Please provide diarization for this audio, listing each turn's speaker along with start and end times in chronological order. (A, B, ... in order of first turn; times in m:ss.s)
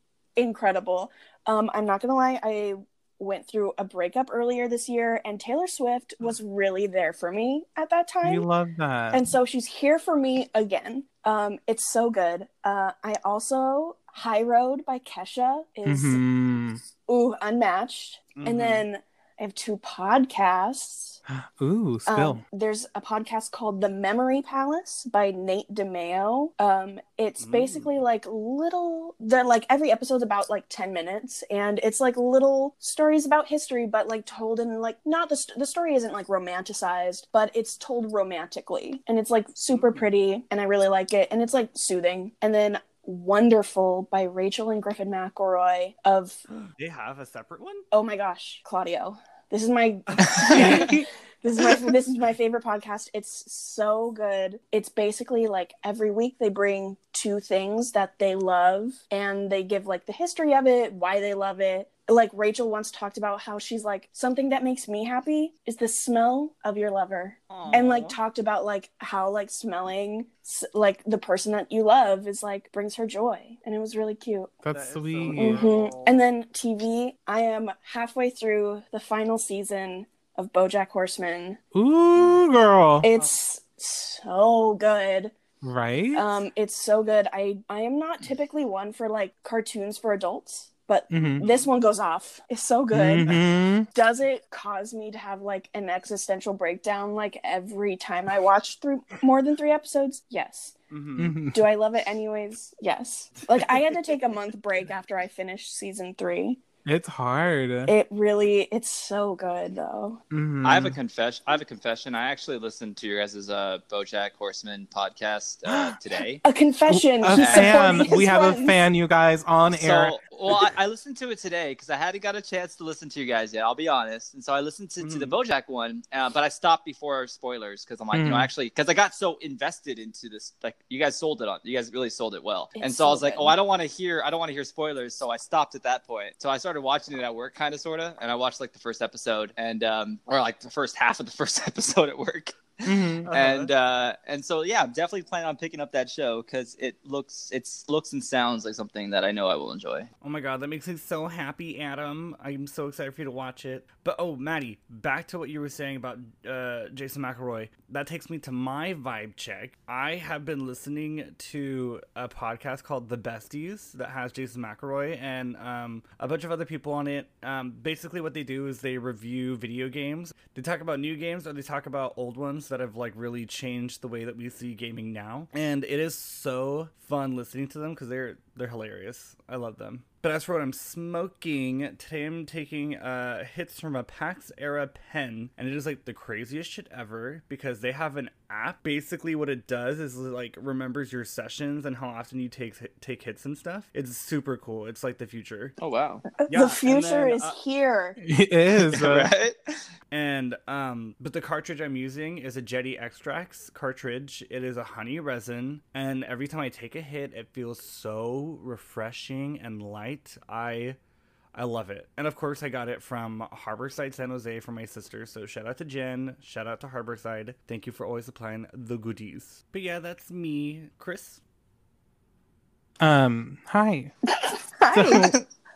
0:00.4-0:08.5 A
0:08.2-0:09.2 B
0:09.1-0:16.2 A
0:15.8-0:16.8 B
0:17.0-0:21.2 A
0:18.4-0:18.8 C
0:21.3-0:22.4 B
0:22.1-0:46.4 A
0:27.4-0:28.0 C
0:39.7-0:40.1 C
0:46.6-0:47.8 C
0:47.9-1:14.6 A
0:50.4-0:50.8 D
0:50.5-0:51.0 B
1:07.5-1:08.2 C
1:14.6-1:15.7 B
1:14.7-1:16.2 C
1:15.3-1:21.6 A
1:21.7-1:23.1 B
1:23.0-1:25.3 A
1:25.6-1:26.2 B
1:26.1-1:33.4 A
1:31.1-1:31.4 B
1:31.4-1:31.7 C
1:32.9-1:33.9 B
1:33.9-1:40.7 A
1:40.9-1:41.4 C
1:41.2-1:41.7 B
1:41.5-1:46.6 A
1:46.8-1:47.9 B
1:47.8-1:50.2 A
1:50.3-1:51.0 B
1:50.6-1:56.4 D
1:55.7-1:55.9 B
1:56.4-1:58.8 A
1:56.9-2:00.2 B
1:57.3-1:58.1 D
1:59.7-2:30.1 D
2:05.0-2:05.3 C
2:08.1-2:08.5 B
2:12.8-2:13.6 A
2:22.8-2:23.3 B
2:23.2-2:23.7 C
2:30.2-3:15.8 C
3:15.8-3:16.2 D
3:16.4-3:18.2 A
3:16.5-3:17.6 C
3:18.2-3:19.3 B
3:18.7-3:19.6 D
3:20.1-3:31.0 C
3:31.5-3:41.4 C
3:43.0-3:44.1 B
3:44.4-3:45.4 A
3:44.9-3:45.4 B
3:45.1-3:45.4 D